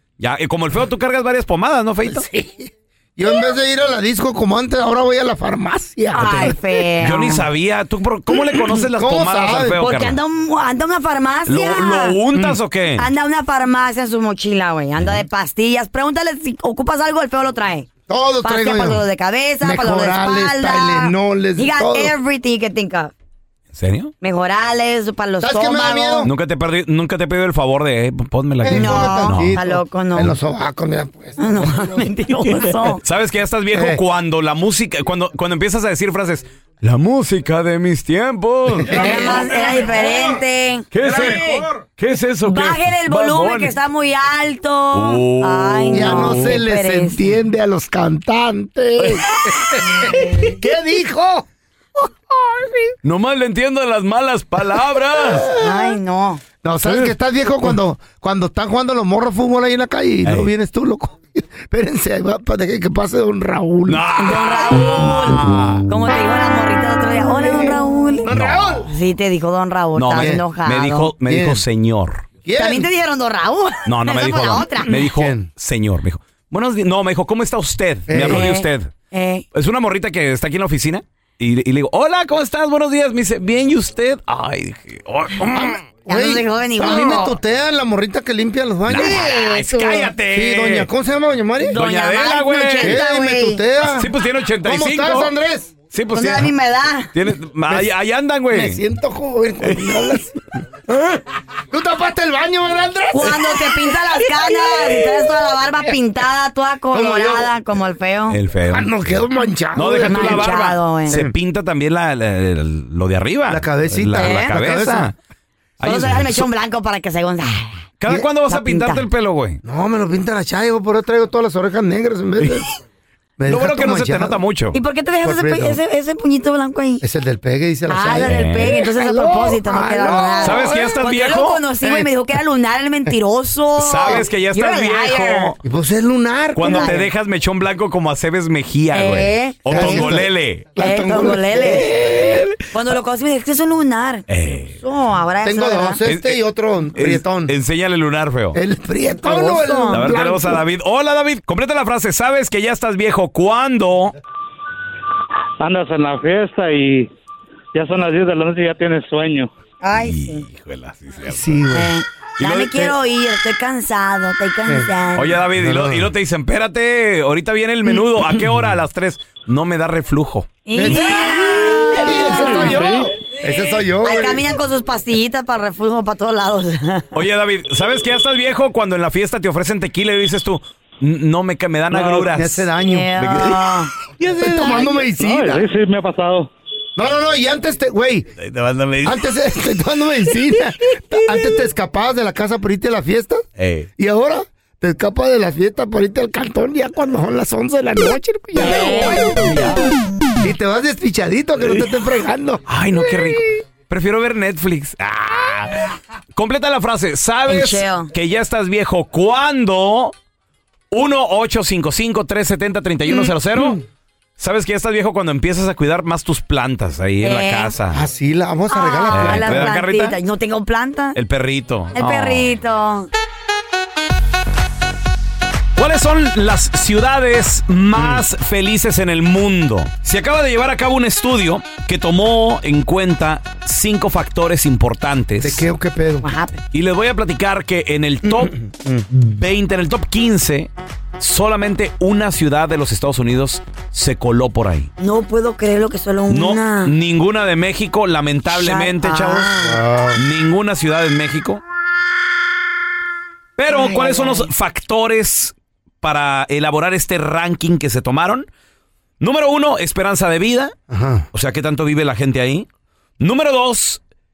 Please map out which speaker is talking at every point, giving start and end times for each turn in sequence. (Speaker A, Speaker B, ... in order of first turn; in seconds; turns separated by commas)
Speaker A: 0.2-2.2, Speaker B: 2.0-7.1, Speaker C: 6.1-7.5, Speaker A: 7.0-10.2, Speaker B: 8.7-9.8, Speaker C: 9.8-12.2, Speaker A: 11.4-13.1, Speaker B: 12.3-12.6, Speaker C: 13.0-17.9, Speaker B: 18.1-19.0, Speaker C: 18.4-23.1, Speaker B: 19.6-22.1, Speaker A: 23.7-24.1, Speaker C: 24.2-26.3, Speaker B: 25.4-26.3, Speaker A: 26.2-29.6, Speaker B: 28.6-32.1, Speaker C: 28.7-30.3, Speaker C: 31.4-33.0, Speaker A: 33.0-40.2, Speaker B: 33.7-34.0, Speaker B: 38.7-39.4, Speaker C: 38.9-41.6, Speaker A: 40.9-43.7, Speaker C: 42.4-47.2, Speaker A: 44.9-46.6, Speaker B: 45.9-51.4, Speaker B: 52.5-52.8, Speaker A: 53.0-55.5, Speaker B: 55.3-56.0, Speaker C: 55.5-56.4, Speaker B: 56.6-64.1, Speaker A: 56.8-57.1, Speaker A: 60.2-60.5, Speaker A: 63.9-65.8, Speaker C: 64.2-68.3, Speaker B: 67.4-68.9, Speaker A: 68.3-68.7, Speaker C: 68.8-71.1, Speaker A: 69.9-72.2, Speaker B: 70.1-70.4, Speaker B: 71.2-71.6, Speaker B: 72.4-72.9, Speaker C: 72.6-74.9, Speaker A: 73.8-78.9, Speaker B: 74.9-75.5, Speaker B: 78.1-78.5, Speaker C: 78.2-79.4, Speaker A: 79.5-85.7, Speaker B: 85.4-89.3, Speaker C: 86.1-87.3, Speaker A: 88.9-90.9, Speaker C: 89.0-90.1, Speaker B: 90.3-91.8, Speaker C: 91.6-93.6, Speaker A: 91.7-93.0, Speaker B: 92.8-94.1, Speaker A: 93.9-95.3, Speaker B: 94.6-95.7, Speaker A: 95.9-96.5, Speaker C: 96.1-97.1, Speaker A: 97.1-98.8, Speaker B: 98.5-103.9, Speaker A: 99.6-100.0, Speaker C: 103.1-108.4, Speaker B: 106.9-107.5, Speaker A: 108.3-109.2, Speaker B: 108.7-111.3, Speaker A: 109.7-115.1, Speaker C: 110.0-111.2, Speaker B: 113.5-115.1, Speaker C: 114.2-114.6, Speaker A: 115.8-116.5, Speaker C: 115.8-117.9, Speaker A: 118.0-119.6, Speaker C: 118.5-119.0, Speaker B: 119.6-122.7, Speaker B: 123.4-124.4, Speaker A: 123.5-124.8, Speaker C: 124.7-127.0, Speaker B: 125.2-125.8, Speaker B: 127.0-130.9, Speaker C: 127.9-135.5, Speaker A: 128.2-128.7, Speaker A: 130.4-131.6, Speaker B: 131.8-132.1, Speaker A: 133.8-135.6, Speaker B: 135.6-137.0, Speaker A: 136.5-140.7, Speaker C: 136.6-137.1, Speaker C: 138.9-140.1, Speaker B: 139.7-142.4, Speaker C: 140.8-142.2, Speaker C: 142.7-144.2, Speaker A: 144.3-144.8, Speaker C: 144.8-146.0, Speaker B: 145.4-147.5, Speaker A: 146.0-146.4, Speaker A: 146.9-148.6, Speaker B: 148.5-150.6, Speaker C: 149.2-150.1, Speaker A: 149.9-154.1, Speaker D: 155.6-157.1, Speaker D: 157.7-159.5, Speaker C: 159.8-160.4, Speaker A: 160.0-161.6, Speaker B: 161.2-161.9, Speaker C: 161.7-165.4, Speaker A: 162.4-162.9, Speaker A: 165.1-171.0, Speaker B: 165.6-166.1, Speaker C: 170.7-172.9, Speaker B: 170.7-174.4, Speaker A: 172.4-172.9, Speaker C: 174.0-177.1, Speaker A: 177.1-183.6, Speaker B: 181.9-183.4, Speaker C: 182.8-183.9, Speaker A: 184.2-184.9, Speaker B: 184.4-185.6, Speaker D: 184.7-186.5, Speaker B: 187.0-188.3, Speaker A: 188.4-189.2, Speaker B: 189.0-193.4, Speaker A: 193.6-193.9, Speaker B: 194.0-199.6, Speaker C: 198.6-199.3, Speaker A: 199.3-199.8, Speaker B: 200.4-202.6, Speaker A: 202.7-210.1, Speaker C: 207.5-208.1, Speaker A: 210.9-213.8, Speaker B: 213.1-213.8, Speaker A: 214.4-218.0, Speaker C: 217.2-217.7, Speaker B: 217.9-219.8, Speaker C: 218.7-221.2, Speaker A: 219.1-220.2, Speaker A: 221.1-222.5, Speaker C: 221.9-223.1, Speaker A: 225.8-235.7, Speaker B: 227.9-228.2, Speaker B: 235.4-236.3, Speaker C: 236.2-236.6, Speaker A: 236.7-238.5, Speaker B: 238.2-239.1, Speaker A: 239.1-244.9, Speaker C: 245.0-246.9, Speaker A: 246.3-249.5, Speaker C: 248.5-249.8, Speaker B: 249.6-250.2, Speaker A: 250.2-251.6, Speaker A: 253.6-258.5, Speaker C: 253.7-254.5, Speaker A: 259.2-260.7, Speaker B: 260.9-261.3, Speaker A: 261.3-262.7, Speaker A: 263.2-264.0